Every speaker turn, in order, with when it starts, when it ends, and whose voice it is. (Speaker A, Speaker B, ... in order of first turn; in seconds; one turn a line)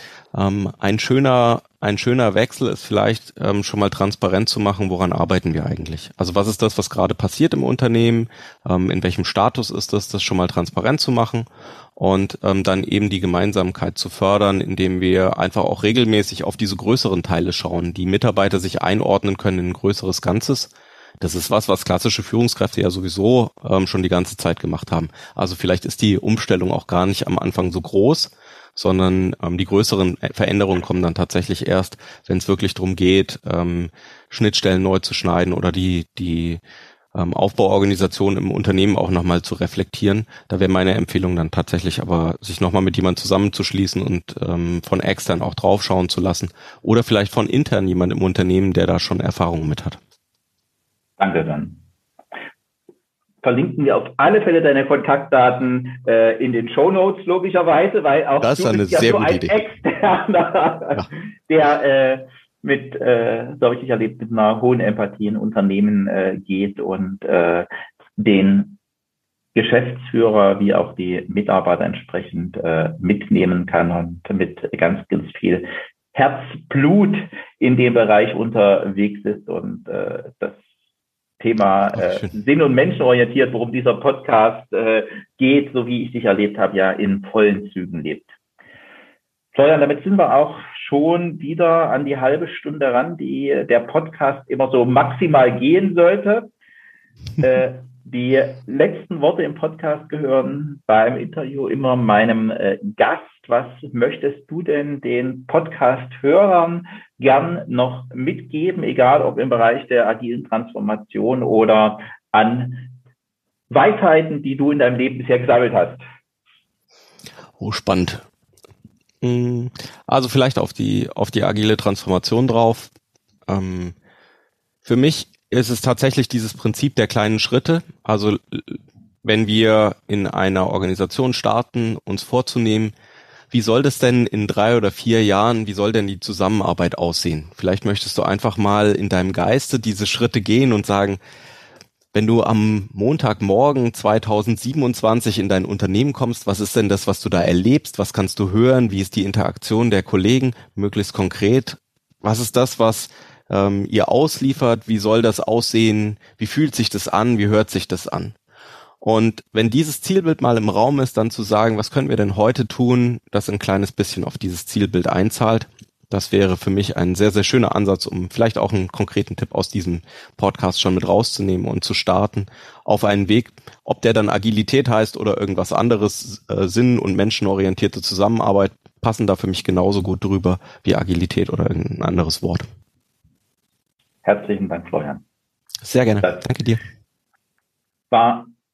Speaker A: 0.3-11.4
Speaker A: 12.0-36.6
Speaker A: 37.1-50.0
Speaker B: 51.2-51.8
Speaker B: 53.4-68.8
Speaker A: 58.4-59.6
Speaker B: 69.5-80.6
Speaker B: 81.4-88.3
Speaker A: 82.0-82.3
Speaker B: 89.5-96.5
Speaker B: 97.4-112.9
Speaker B: 113.7-116.0
Speaker A: 117.6-118.2
Speaker A: 119.2-122.9
Speaker A: 123.5-123.9
Speaker A: 124.8-132.9
Speaker A: 133.5-141.2
Speaker A: 142.1-158.3
Speaker A: 159.0-182.7
Speaker B: 184.2-185.2
Speaker A: 185.8-186.8
Speaker B: 188.1-188.5